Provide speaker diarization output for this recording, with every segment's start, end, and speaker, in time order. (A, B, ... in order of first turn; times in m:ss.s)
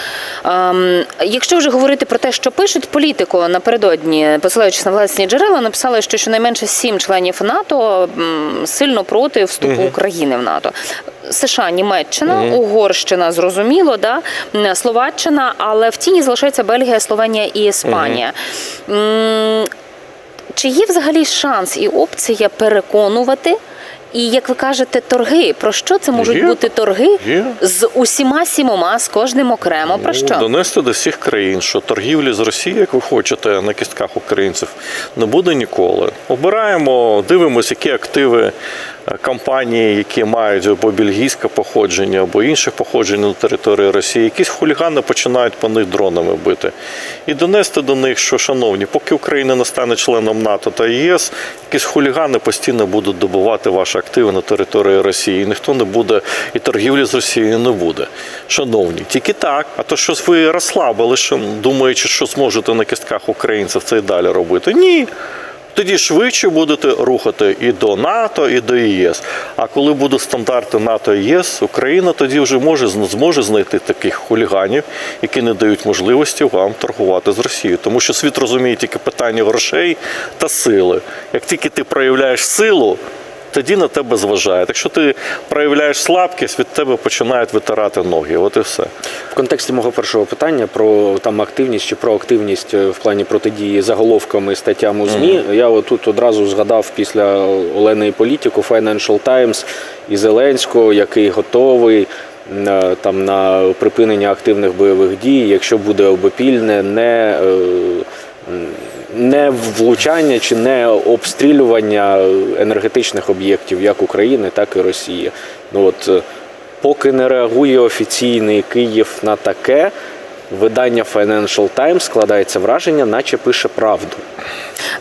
0:00.4-0:19.7 A
0:09.6-0:09.9 B
0:12.3-0:12.6 B
0:17.8-0:18.2 B
0:20.6-0:23.6 A
0:24.1-0:30.4 A
0:26.2-0:26.6 B
0:27.2-0:27.6 B
0:29.9-0:38.5 B
0:39.1-0:46.7 B
0:47.2-1:05.1 B
1:05.7-1:23.0 B
1:23.5-1:28.9 B
1:29.3-1:56.2 C
1:35.1-1:35.4 B
1:56.8-1:59.9 C
2:00.5-2:04.2 C